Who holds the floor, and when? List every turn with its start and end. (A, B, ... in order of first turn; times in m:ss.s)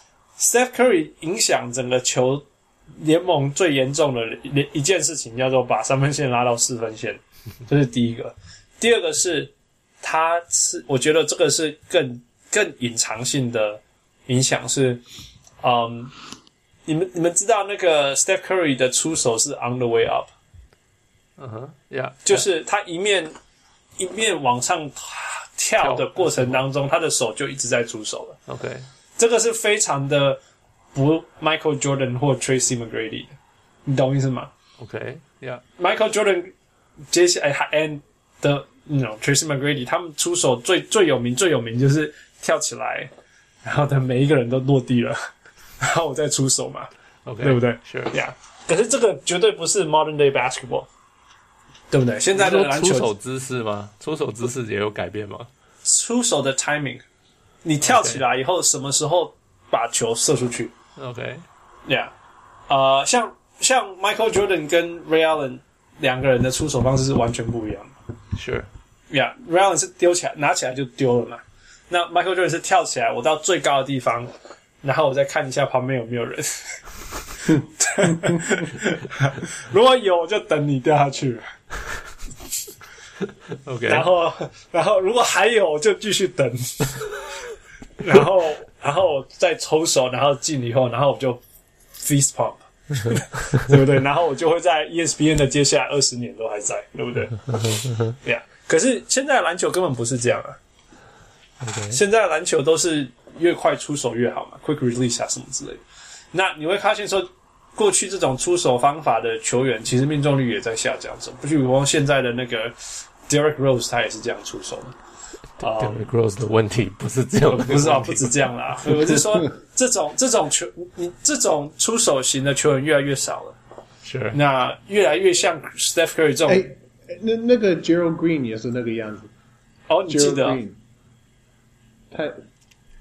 0:00.4-0:15.0 A
0:15.6-0:16.1 A
0:16.8-0:20.3 A
0:21.4-0:22.4 B
0:22.2-0:23.3 A
0:24.0-0:28.4 A
0:25.8-0:26.6 B
0:28.5-0:28.9 B
0:29.2-0:30.4 A
0:30.9-0:34.5 A
0:34.8-0:35.6 B
0:35.8-0:36.5 A
0:37.1-0:43.1 A
0:43.6-0:46.9 A
0:47.2-0:48.1 B
0:47.4-0:50.9 A
0:51.9-0:53.1 A
0:52.3-0:55.5 B
0:55.8-0:57.0 A
0:57.6-1:00.7 A
0:57.8-0:58.2 B
1:01.0-1:01.4 B
1:01.8-1:02.1 A
1:02.7-1:08.0 A
1:08.3-1:08.7 B
1:09.1-1:14.3 A
1:14.8-1:21.5 A
1:23.6-1:24.1 B
1:23.9-1:27.2 A
1:28.0-1:31.4 A
1:32.0-1:37.4 A
1:33.1-1:33.6 B
1:37.5-1:38.1 B
1:38.2-1:40.6 A
1:41.6-1:42.0 B
1:41.9-1:55.0 A
1:55.6-1:56.0 A
1:55.6-1:59.1 B
1:57.5-2:03.6 A
2:04.0-2:04.4 B
2:04.3-2:06.7 A
2:06.5-2:09.3 C
2:09.9-2:10.6 A
2:10.1-2:10.8 C
2:12.1-2:12.4 C